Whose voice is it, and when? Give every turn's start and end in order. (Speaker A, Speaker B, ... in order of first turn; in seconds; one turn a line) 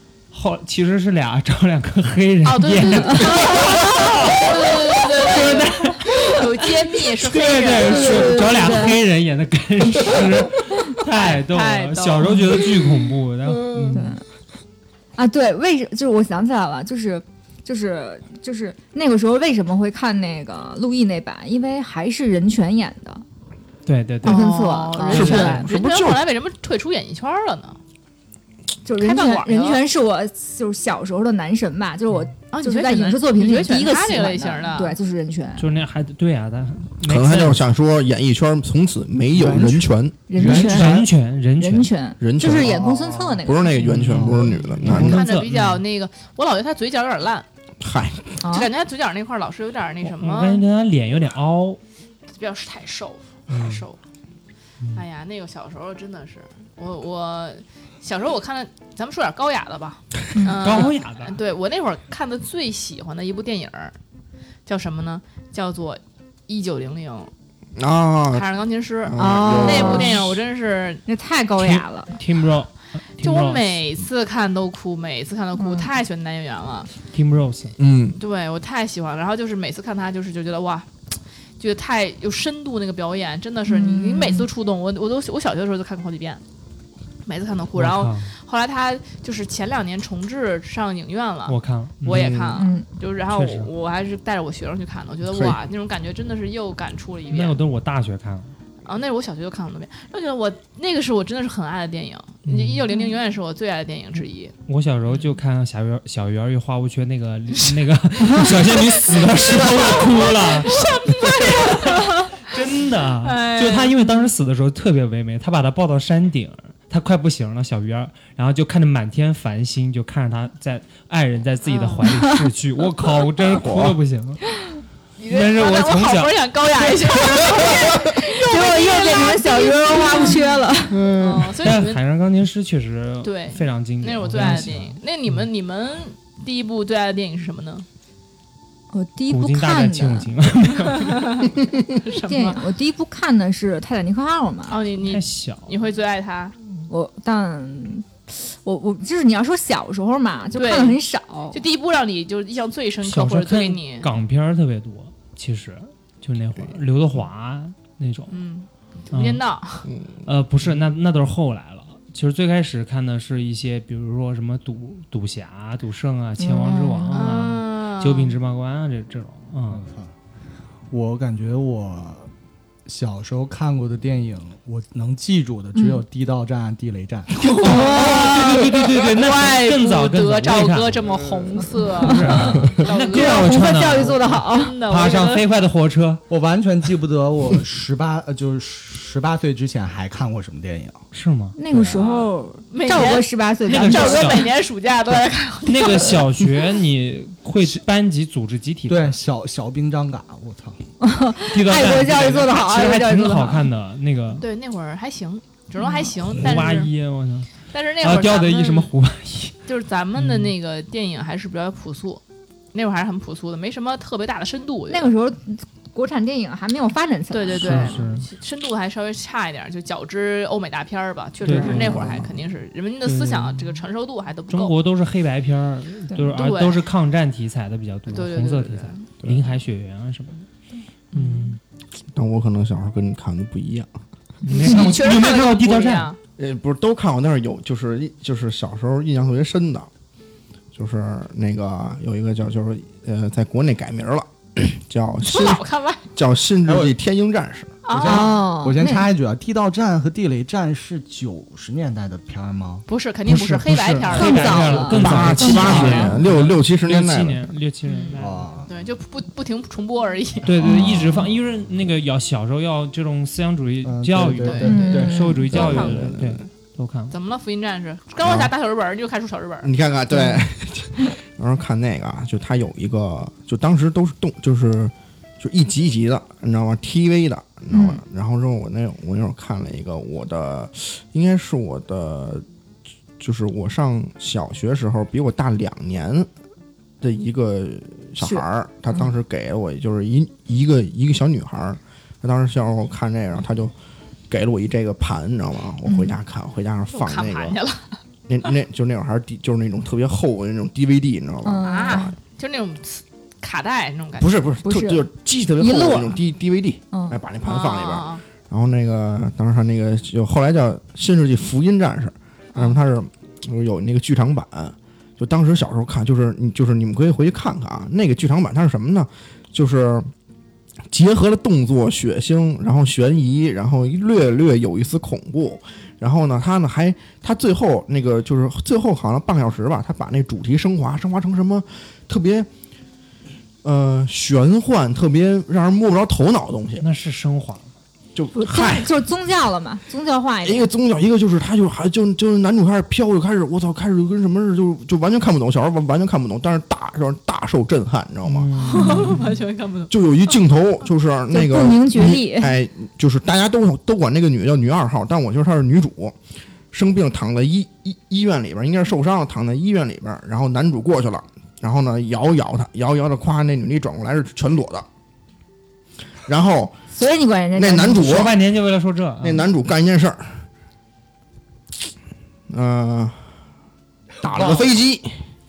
Speaker A: 0.3-4.5
Speaker B: 2.4-8.8
Speaker C: 3.1-4.1
Speaker A: 5.2-6.5
Speaker A: 7.2-14.1
Speaker C: 7.8-9.0
Speaker B: 11.0-12.6
Speaker D: 13.6-14.0
Speaker C: 13.9-14.2
Speaker C: 15.2-23.2
Speaker A: 23.9-24.5
Speaker C: 24.2-25.7
Speaker B: 24.2-27.8
Speaker A: 25.1-25.5
Speaker D: 25.1-26.2
Speaker C: 28.9-35.7
Speaker B: 29.0-29.8
Speaker B: 32.5-35.0
Speaker A: 35.6-37.6
Speaker D: 37.0-40.2
Speaker E: 39.3-41.1
Speaker C: 40.3-41.0
Speaker A: 40.4-41.9
Speaker C: 41.6-44.0
Speaker D: 42.2-42.9
Speaker E: 42.5-43.4
Speaker D: 43.4-45.2
Speaker A: 43.8-45.8
Speaker E: 44.0-45.1
Speaker B: 44.9-47.5
Speaker D: 47.8-48.4
Speaker C: 48.4-48.7
Speaker B: 48.5-50.6
Speaker A: 50.0-51.8
Speaker B: 52.4-54.0
Speaker A: 53.5-53.8
Speaker B: 54.9-64.0
Speaker C: 60.4-60.6
Speaker A: 60.6-61.4
Speaker B: 64.7-67.3
Speaker D: 67.8-68.5
Speaker B: 68.3-71.0
Speaker D: 69.0-70.3
Speaker C: 69.2-70.2
Speaker C: 71.1-72.1
Speaker A: 71.6-73.8
Speaker B: 73.2-76.9
Speaker C: 75.6-75.9
Speaker A: 77.1-77.7
Speaker D: 77.8-78.2
Speaker B: 78.2-80.9
Speaker B: 81.6-86.4
Speaker C: 83.7-84.5
Speaker B: 87.2-97.6
Speaker A: 87.8-88.3
Speaker A: 91.5-92.3
Speaker D: 92.1-92.6
Speaker C: 92.6-92.9
Speaker A: 93.3-93.7
Speaker D: 95.3-95.6
Speaker A: 97.3-98.5
Speaker B: 98.8-104.5
Speaker A: 102.5-102.9
Speaker A: 104.7-124.4
Speaker B: 108.7-112.5
Speaker B: 113.2-114.3
Speaker B: 121.7-122.0
Speaker C: 122.1-122.5
Speaker D: 123.5-124.0
Speaker B: 125.2-130.4
Speaker A: 125.3-126.3
Speaker C: 128.2-131.2
Speaker D: 130.9-131.5
Speaker B: 131.1-132.0
Speaker A: 131.6-135.4
Speaker B: 133.2-137.9
Speaker C: 138.9-140.3
Speaker A: 139.3-141.3
Speaker B: 140.9-142.6
Speaker C: 142.3-144.8
Speaker B: 144.7-146.6
Speaker A: 145.0-145.8
Speaker C: 146.9-151.6
Speaker B: 150.5-151.0
Speaker B: 151.5-154.1
Speaker A: 153.1-158.3
Speaker B: 158.3-159.9
Speaker A: 159.1-159.4
Speaker D: 159.9-160.2
Speaker A: 160.2-169.8
Speaker C: 166.4-167.2
Speaker B: 167.1-168.3
Speaker E: 169.7-170.1
Speaker E: 170.9-172.3
Speaker E: 172.9-177.6
Speaker C: 175.8-176.0
Speaker A: 177.6-181.2
Speaker C: 177.6-178.5
Speaker B: 177.6-185.4
Speaker C: 181.8-184.8
Speaker A: 181.8-186.2
Speaker E: 186.3-191.0
Speaker A: 191.1-191.6
Speaker C: 191.6-194.5
Speaker E: 191.7-192.1
Speaker B: 191.9-196.2
Speaker A: 193.7-194.5
Speaker A: 195.7-199.2
Speaker E: 198.9-200.8
Speaker C: 201.0-203.7
Speaker A: 201.5-204.4
Speaker B: 204.4-206.9
Speaker C: 205.8-206.2
Speaker A: 206.3-209.6
Speaker B: 207.7-208.9
Speaker B: 209.7-212.2
Speaker A: 210.2-210.5
Speaker B: 212.7-215.1
Speaker C: 214.9-218.0
Speaker B: 217.3-224.7
Speaker A: 217.6-218.2
Speaker A: 221.4-222.1
Speaker D: 221.6-222.3
Speaker A: 223.1-223.8
Speaker A: 224.5-230.5
Speaker B: 226.3-226.8
Speaker B: 228.1-229.0
Speaker C: 231.2-231.5
Speaker A: 231.2-231.6
Speaker D: 232.1-233.9
Speaker A: 234.4-236.1
Speaker B: 234.5-236.2
Speaker D: 236.4-239.9
Speaker D: 240.7-245.6
Speaker B: 245.2-246.0
Speaker D: 246.1-247.7
Speaker E: 246.7-246.9
Speaker B: 247.8-248.4
Speaker E: 247.9-252.8
Speaker C: 248.0-249.1
Speaker B: 252.9-256.1
Speaker A: 253.3-258.7
Speaker C: 254.1-256.2
Speaker D: 254.9-257.4
Speaker B: 257.9-260.5
Speaker E: 258.2-258.7
Speaker A: 260.4-267.1
Speaker C: 260.6-261.3
Speaker E: 263.8-265.3
Speaker B: 264.4-265.9
Speaker C: 264.7-265.5
Speaker D: 265.5-266.4
Speaker B: 267.1-269.7
Speaker D: 268.2-268.5
Speaker D: 269.6-282.4
Speaker C: 270.1-270.4
Speaker C: 277.7-278.0
Speaker D: 283.2-286.3
Speaker D: 287.0-293.7
Speaker D: 294.3-297.6
Speaker C: 295.9-296.1
Speaker B: 296.9-298.0
Speaker D: 298.3-302.1
Speaker C: 301.4-302.1
Speaker B: 301.6-304.4
Speaker D: 304.2-320.1
Speaker C: 304.6-305.1
Speaker C: 305.6-306.2
Speaker C: 306.9-307.2
Speaker B: 307.4-308.2
Speaker D: 320.9-332.5
Speaker D: 333.6-336.9
Speaker A: 336.8-337.7
Speaker D: 338.1-338.9
Speaker C: 338.4-340.7
Speaker D: 340.4-348.5
Speaker A: 348.3-349.3
Speaker B: 348.6-350.4
Speaker D: 349.9-356.2
Speaker C: 351.3-352.5
Speaker D: 356.7-364.9
Speaker D: 366.3-366.8
Speaker C: 366.9-368.2
Speaker D: 367.6-368.4
Speaker A: 368.0-369.5
Speaker D: 369.2-370.4
Speaker D: 372.5-373.2
Speaker E: 374.2-374.7
Speaker D: 374.2-375.2